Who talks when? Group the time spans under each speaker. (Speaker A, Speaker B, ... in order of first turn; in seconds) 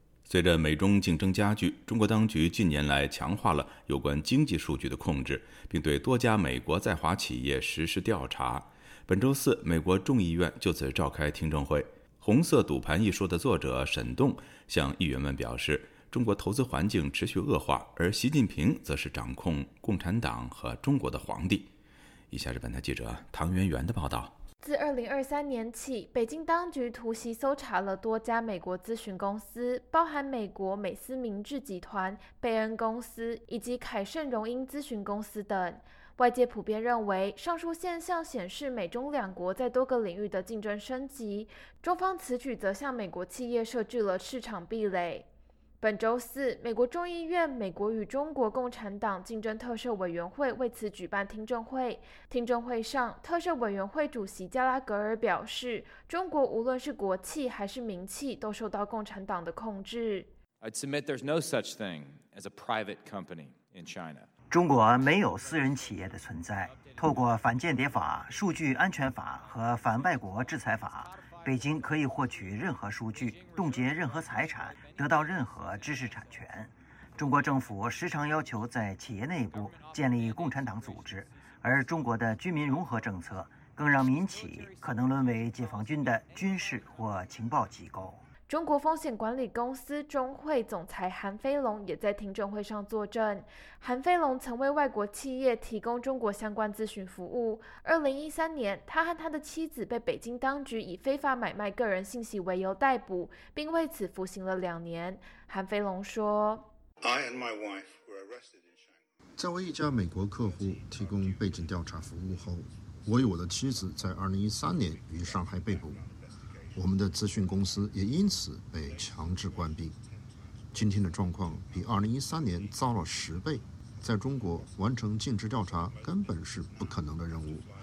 Speaker A: 0.3-21.7, 22.3-24.3
Speaker B: 24.6-45.3, 45.8-60.3, 88.5-106.7
Speaker C: 60.6-64.3
Speaker D: 64.5-88.2
Speaker E: 109.4-116.0, 116.7-120.0, 120.7-127.6